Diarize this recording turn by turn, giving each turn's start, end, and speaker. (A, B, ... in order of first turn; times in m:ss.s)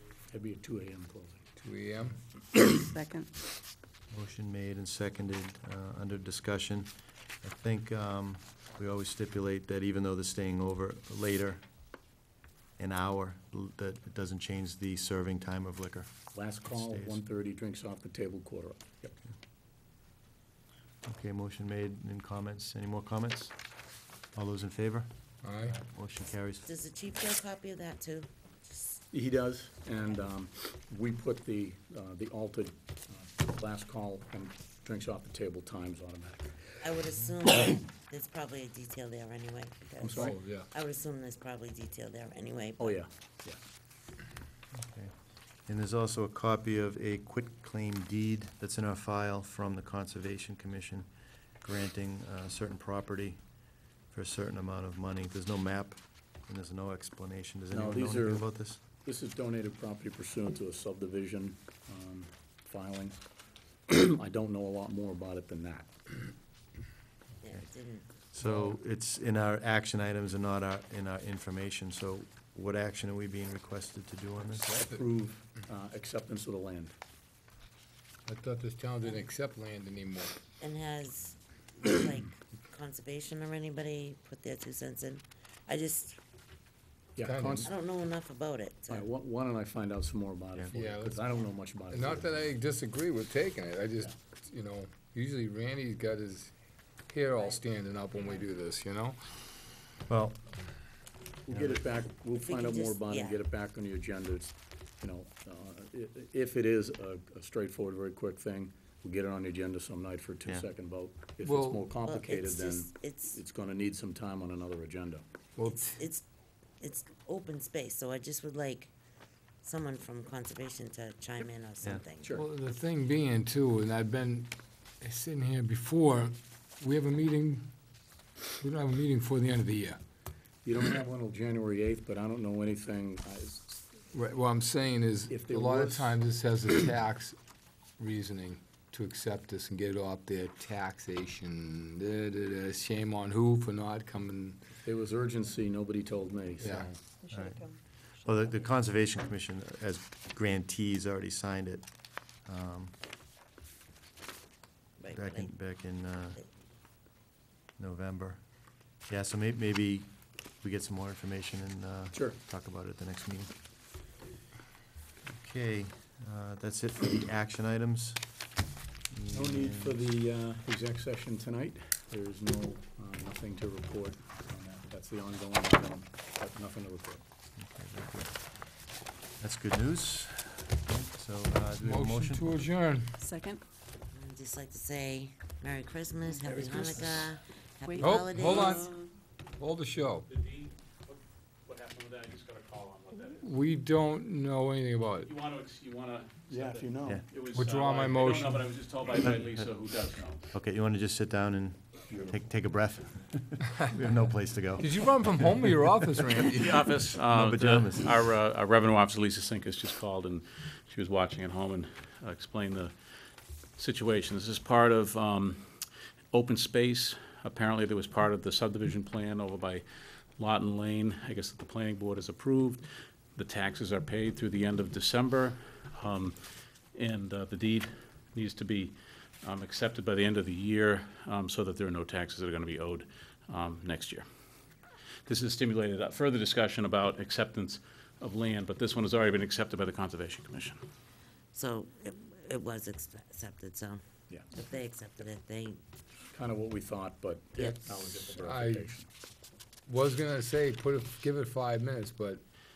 0:00.3-0:01.4 A
0:01.6-0:02.9 B
0:02.9-0:03.3 C
0:04.1-0:06.9 D
0:07.4-0:11.6 D
0:12.8-0:16.1 D
0:16.3-0:19.2 A
0:16.7-0:17.2 D
0:21.0-0:23.5 D
0:24.3-0:25.1 D
0:25.4-0:25.8 B
0:25.7-0:26.6 D
0:26.6-0:29.0 E
0:29.1-0:36.7 A
0:36.8-0:43.0 E
0:40.0-0:40.3 A
0:40.1-0:40.7 B
0:42.8-0:43.6 A
0:44.7-0:45.1 D
0:45.7-0:51.1 D
0:51.6-0:53.4 D
0:54.1-0:58.8 D
0:57.7-0:58.4 A
0:59.0-1:03.2 A
1:03.9-1:06.1 A
1:07.4-1:08.1 E
1:08.3-1:14.7 D
1:08.4-1:08.7 B
1:14.6-1:16.9 A
1:18.3-1:20.4 B
1:20.6-1:26.2 E
1:27.2-1:27.8 A
1:27.2-1:27.7 B
1:27.6-1:29.1 E
1:28.9-1:32.5 A
1:30.7-1:31.2 B
1:31.9-1:36.5 B
1:37.1-1:39.2 B
1:37.3-1:37.6 E
1:38.1-1:38.5 E
1:40.1-1:40.4 D
1:41.5-1:55.2 A
1:41.5-1:41.8 D
1:42.2-1:43.4 E
1:51.4-1:51.9 B
1:52.0-1:53.4 E
1:55.6-1:56.1 B
1:55.6-1:56.2 E
1:56.8-1:58.9 E
1:59.6-2:02.3 E
2:02.2-2:02.4 A
2:02.3-2:07.7 B
2:08.6-2:10.0 B
2:10.6-2:13.8 A
2:14.1-2:17.4 B
2:15.3-2:16.2 A
2:18.0-2:24.7 B
2:24.8-2:27.0 A
2:26.6-2:26.9 B
2:27.2-2:27.7 C
2:27.3-2:27.7 D
2:28.2-2:31.8 D
2:32.4-2:32.9 D
2:35.0-2:35.5 E
2:35.1-2:36.4 D
2:37.8-2:38.4 D
2:39.1-2:43.5 D
2:45.2-2:48.2 D
2:49.1-2:50.0 D
2:49.3-2:57.2 A
2:57.6-2:58.4 D
2:59.4-3:02.6 D
3:01.8-3:03.2 B
3:03.2-3:03.6 C
3:04.1-3:08.9 E
3:06.4-3:09.0 C
3:08.0-3:08.9 B
3:09.6-3:10.3 B
3:10.3-3:13.5 F
3:13.4-3:15.3 B
3:15.2-3:20.5 F
3:16.5-3:17.2 A
3:17.5-3:18.7 B
3:20.5-3:25.6 D
3:22.1-3:22.4 A
3:24.8-3:26.8 B
3:26.5-3:32.9 F
3:27.1-3:28.2 D
3:33.8-3:39.8 F
3:40.4-3:46.4 F
3:46.9-3:54.2 F
3:55.3-4:00.8 F
4:01.5-4:04.0 E
4:04.5-4:05.8 E
4:06.3-4:09.1 A
4:07.6-4:07.9 E
4:08.4-4:08.9 B
4:09.9-4:12.4 B